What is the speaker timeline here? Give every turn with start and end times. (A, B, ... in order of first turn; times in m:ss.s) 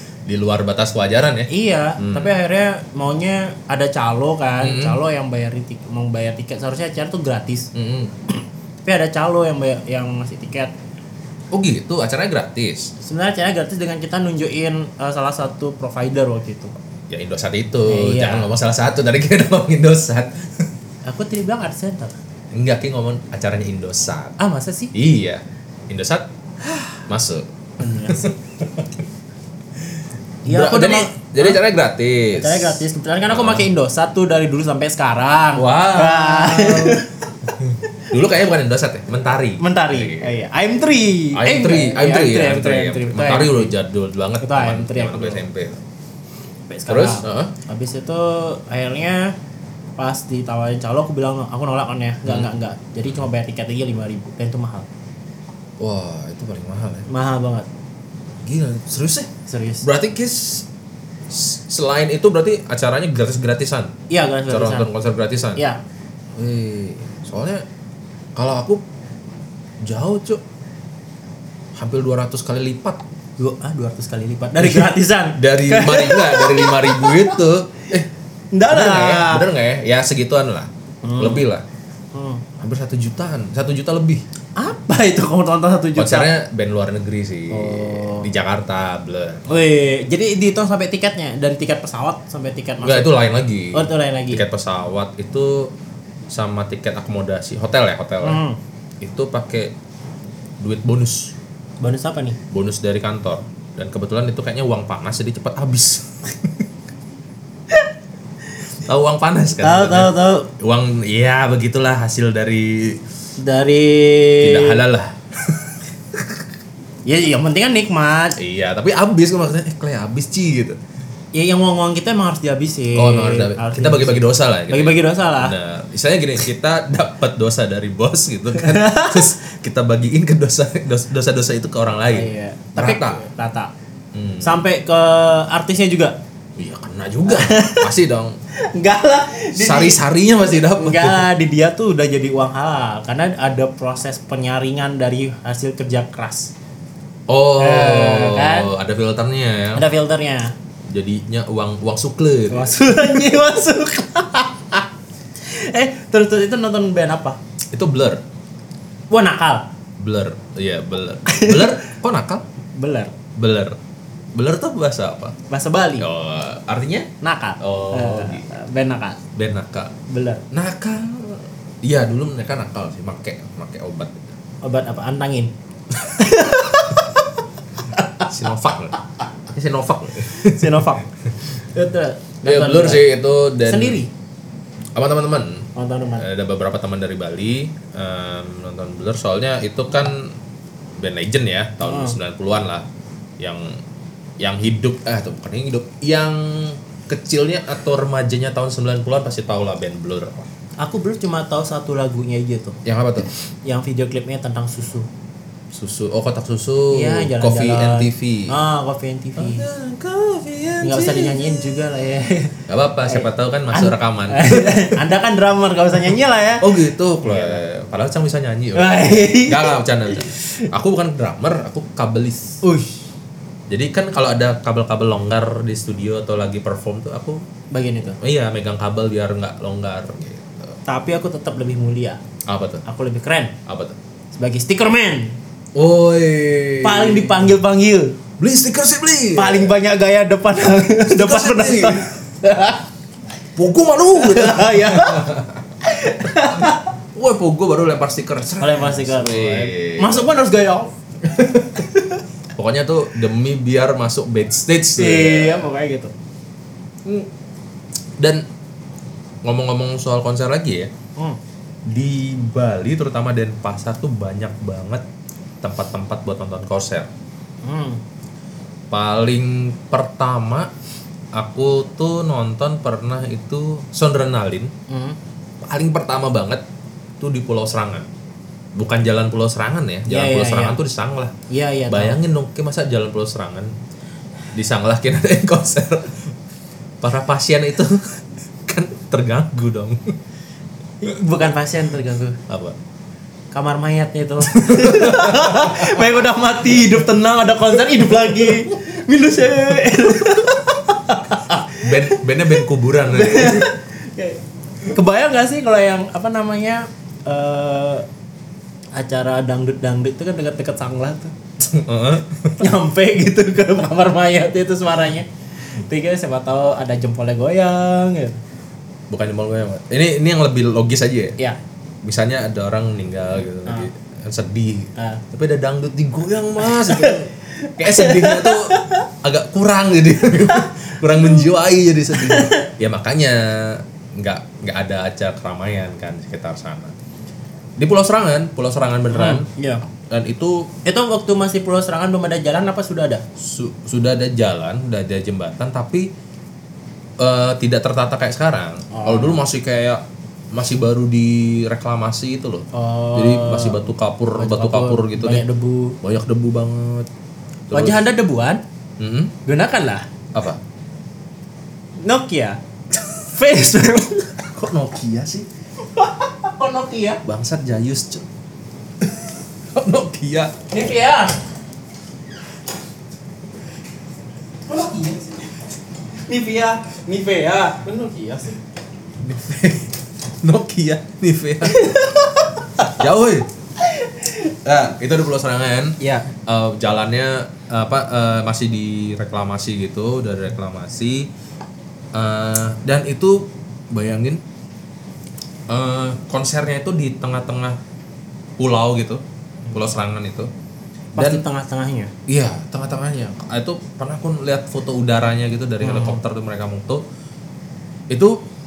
0:00.3-0:02.3 A
0:01.5-0:07.7 B
0:04.6-0:05.0 A
0:07.7-0:08.1 A
0:08.8-0:10.7 B
0:11.5-0:12.9 A
0:13.0-0:16.7 B
0:17.1-0:20.5 A
0:17.9-0:18.5 B
0:21.0-0:22.2 B
0:22.5-0:24.4 A
0:24.4-0:24.9 B
0:24.9-0:29.0 A
0:27.8-0:28.3 B
0:30.4-0:31.6 B
0:30.5-0:33.7 A
0:32.3-0:37.2 B
0:35.6-0:40.3 A
0:39.6-0:43.7 B
0:41.3-0:45.8 A
0:44.4-0:45.4 B
0:46.7-0:49.4 B
0:46.9-0:47.5 A
0:50.0-0:54.9 B
0:52.3-0:52.5 A
0:55.8-0:57.1 A
0:57.1-0:57.7 B
0:58.4-0:59.3 A
0:59.5-0:59.8 B
0:59.8-1:00.7 A
1:01.3-1:03.9 A
1:04.1-1:04.9 B
1:04.5-1:05.6 A
1:06.4-1:07.6 A
1:08.4-1:08.8 A
1:09.8-1:10.4 A
1:11.8-1:13.0 A
1:13.4-1:17.4 B
1:14.6-1:18.1 A
1:18.5-1:19.5 B
1:18.7-1:21.6 A
1:21.0-1:21.4 B
1:22.1-1:22.4 B
1:22.6-1:24.2 A
1:24.6-1:26.3 B
1:26.0-1:29.5 A
1:27.5-1:28.3 B
1:29.5-1:33.2 B
1:32.8-1:35.7 A
1:33.7-1:34.4 B
1:36.3-1:38.4 A
1:38.2-1:38.6 B
1:39.0-1:39.7 A
1:40.6-1:41.4 A
1:41.8-1:42.4 B
1:42.5-1:46.5 A
1:48.8-1:53.0 A
1:49.6-1:50.5 B
1:53.4-1:54.8 B
1:54.4-1:56.4 A
1:57.0-1:58.4 B
1:58.4-2:00.8 A
2:01.3-2:05.6 B
2:03.0-2:13.2 A
2:08.5-2:09.3 B
2:12.1-2:13.7 B
2:14.1-2:14.6 A
2:14.4-2:16.2 B
2:16.6-2:18.4 A
2:17.3-2:17.9 B
2:18.6-2:20.0 B
2:19.6-2:21.3 A
2:20.8-2:26.5 B
2:27.3-2:29.9 A
2:27.6-2:28.7 B
2:29.8-2:30.6 B
2:30.9-2:33.2 A
2:32.5-2:34.9 B
2:35.4-2:37.4 B
2:37.7-2:38.2 A
2:39.1-2:39.7 B
2:40.0-2:42.4 A
2:41.3-2:41.8 B
2:42.8-2:43.2 B
2:43.4-2:43.8 A
2:44.4-2:45.4 A
2:45.5-2:46.1 B
2:46.0-2:48.5 A
2:47.2-2:49.2 B
2:49.4-2:50.0 A
2:50.1-2:50.4 B
2:50.5-2:54.4 A
2:54.6-2:57.2 B
2:58.0-2:58.3 B
2:58.2-2:59.0 A
2:59.5-3:01.0 A
3:00.3-3:01.0 B
3:01.7-3:03.1 B
3:02.4-3:04.0 A
3:03.6-3:04.1 B
3:05.0-3:10.4 A
3:05.8-3:06.3 B
3:11.0-3:12.8 A
3:11.8-3:12.2 B
3:13.4-3:13.8 A
3:14.4-3:20.5 A
3:20.8-3:22.8 B
3:22.8-3:23.3 A
3:23.6-3:25.1 B
3:25.7-3:28.6 A
3:26.9-3:29.7 B
3:29.4-3:31.7 A
3:30.8-3:37.6 B
3:32.7-3:35.0 A
3:36.6-3:42.6 A
3:38.7-3:40.7 B
3:42.6-3:43.0 B
3:43.7-3:47.4 A
3:47.7-3:48.2 B
3:48.2-3:50.8 A
3:50.9-3:52.2 B
3:52.5-3:52.8 A
3:52.8-3:53.5 B
3:53.7-3:54.0 A
3:54.3-3:55.4 B
3:55.8-3:57.5 A
3:56.8-3:58.2 B
3:58.4-3:59.7 A
3:59.3-4:02.9 B
4:01.0-4:02.1 A
4:03.6-4:05.6 A
4:04.2-4:06.9 B
4:06.5-4:10.3 A
4:08.6-4:10.9 B
4:11.3-4:11.8 A
4:11.7-4:12.2 B
4:12.6-4:15.7 A
4:15.0-4:16.1 B
4:18.2-4:18.4 A
4:19.4-4:20.9 A
4:21.9-4:25.0 A
4:25.6-4:27.1 A
4:27.6-4:28.0 B
4:28.9-4:30.7 A
4:31.4-4:34.7 A
4:34.9-4:35.2 B
4:35.6-4:36.6 A
4:37.2-4:38.1 A
4:38.8-4:41.3 A
4:40.1-4:40.8 B
4:41.5-4:42.2 B
4:41.9-4:43.7 A
4:44.6-4:46.3 A
4:47.0-4:50.1 A
4:51.0-4:52.4 B
4:52.5-4:52.8 A
4:53.5-5:08.1 B
4:54.5-4:56.0 A
5:01.5-5:03.7 A
5:08.9-5:11.3 B
5:11.6-5:12.6 A
5:12.6-5:18.4 B
5:19.1-5:21.4 A
5:22.0-5:36.9 A
5:25.0-5:25.2 B
5:26.6-5:29.1 B
5:30.3-5:31.5 B
5:32.1-5:32.7 B
5:37.8-5:39.5 A
5:39.1-5:39.8 B
5:40.0-5:40.7 A
5:40.8-5:43.2 B
5:43.4-5:46.1 A
5:47.2-5:55.4 A
5:48.9-5:49.4 B
5:52.7-5:53.8 B
5:54.4-5:56.0 B
5:56.0-5:57.1 A
5:57.7-5:58.0 A
5:57.7-5:58.6 B
5:59.0-5:59.4 A
5:59.5-6:00.1 B
6:00.3-6:00.6 A
6:02.0-6:02.6 B
6:03.2-6:04.5 B
6:04.5-6:05.5 A
6:05.8-6:07.2 B
6:07.2-6:08.3 A
6:09.7-6:10.6 A
6:10.7-6:11.4 B
6:14.7-6:15.7 B
6:16.3-6:18.6 B
6:19.2-6:22.0 A
6:21.6-6:23.0 B
6:22.8-6:23.5 A
6:23.8-6:24.5 B
6:24.6-6:31.3 A
6:26.0-6:26.3 B
6:32.1-6:34.4 A
6:35.7-6:37.8 A
6:38.6-6:40.5 A
6:41.2-6:42.1 B
6:41.2-6:41.4 A
6:42.3-6:47.0 A
6:45.8-6:46.2 B
6:48.1-6:48.4 A